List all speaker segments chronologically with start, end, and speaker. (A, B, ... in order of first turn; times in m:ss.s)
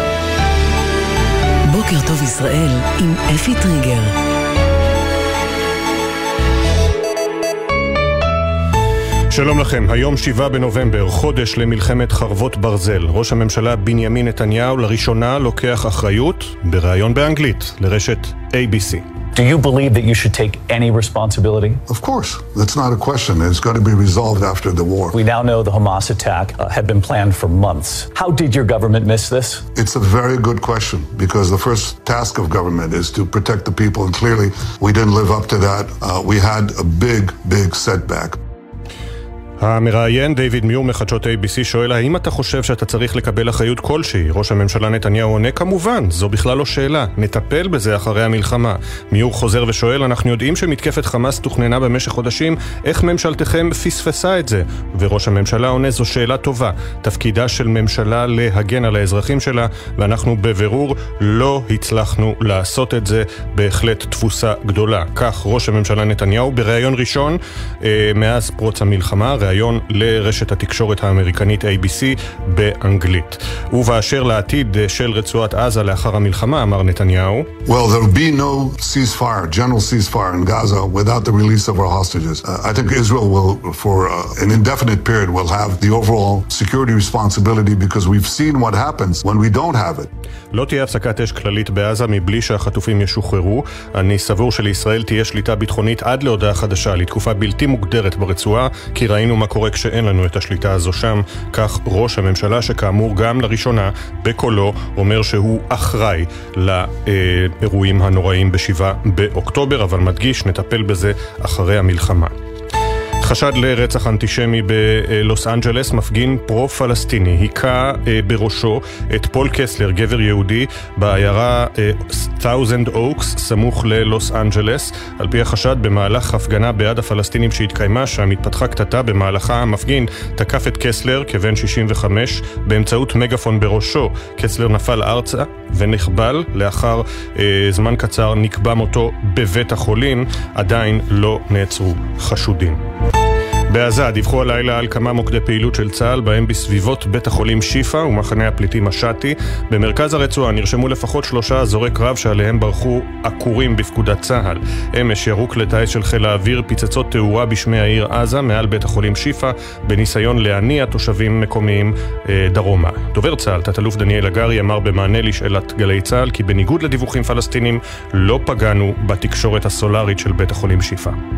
0:01.7-0:04.1 A
0:09.3-0:19.0 B
0:19.4-0:21.8 C
0:21.9-0:25.2 D
0:25.1-0:29.6 C
0:29.8-0:38.4 D
0:39.6-1:17.5 B
1:17.7-1:30.1 D
1:30.5-1:52.3 B
1:53.2-2:22.8 B
2:23.7-2:51.2 B